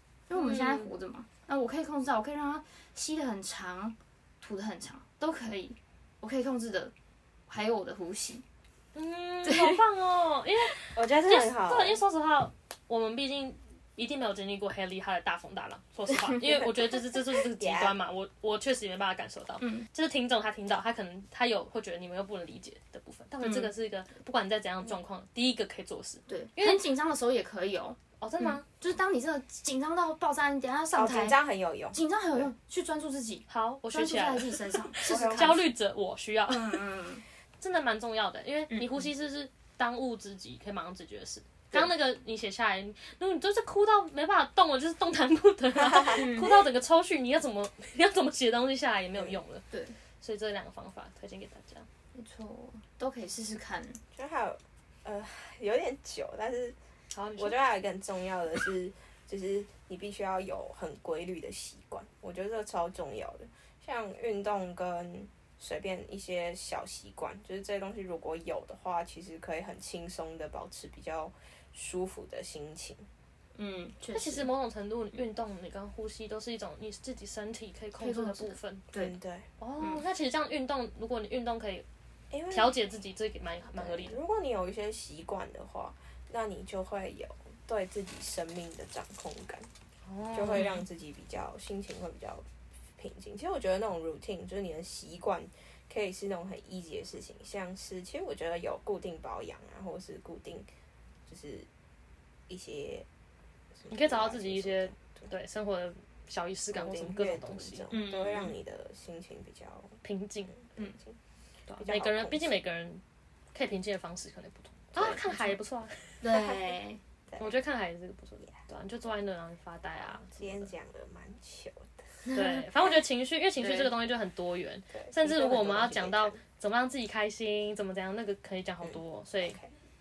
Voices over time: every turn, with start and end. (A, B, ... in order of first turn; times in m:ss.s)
0:00.3-0:06.9 A
0:00.3-0:00.9 B
0:07.5-0:08.4 A
0:09.0-0:26.8 B
0:09.4-0:09.8 A
0:10.9-0:12.0 C
0:16.4-0:18.0 C
0:19.6-0:19.9 A
0:23.4-0:23.7 A
0:26.3-0:31.4 A
0:28.2-0:28.6 B
0:30.9-0:32.0 C
0:31.9-0:35.7 A
0:33.5-0:36.9 B
0:35.0-0:35.6 C
0:36.5-0:37.2 A
0:37.6-0:49.6 B
0:38.7-0:39.0 A
0:46.1-0:46.7 A
0:49.7-0:50.0 A
0:50.2-0:51.9 B
0:52.1-0:54.0 A
0:54.2-0:56.8 C
0:57.1-0:57.6 B
0:57.4-1:13.1 C
1:13.6-1:14.5 A
1:14.1-1:18.8 B
1:18.0-1:19.1 A
1:18.9-1:19.5 C
1:19.6-1:21.8 B
1:19.8-1:20.0 A
1:22.3-1:22.8 C
1:22.5-1:24.2 B
1:23.8-1:29.7 C
1:30.0-1:30.8 B
1:30.3-1:32.4 C
1:33.0-1:40.7 C
1:41.3-1:41.7 C
1:42.5-1:43.1 C
1:43.8-1:45.2 C
1:43.9-1:47.9 B
1:46.7-1:50.0 C
1:47.9-1:48.6 A
1:50.0-1:50.5 B
1:50.6-1:51.2 C
1:51.7-1:53.0 B
1:51.8-1:52.6 C
1:53.5-1:56.4 B
1:55.0-1:55.5 C
1:55.0-1:55.5 A
1:56.2-1:57.0 A
1:57.4-2:00.7 B
2:00.0-2:02.1 C
2:02.3-2:02.7 A
2:02.3-2:09.6 B
2:03.6-2:03.9 A
2:04.9-2:06.4 C
2:08.8-2:09.7 C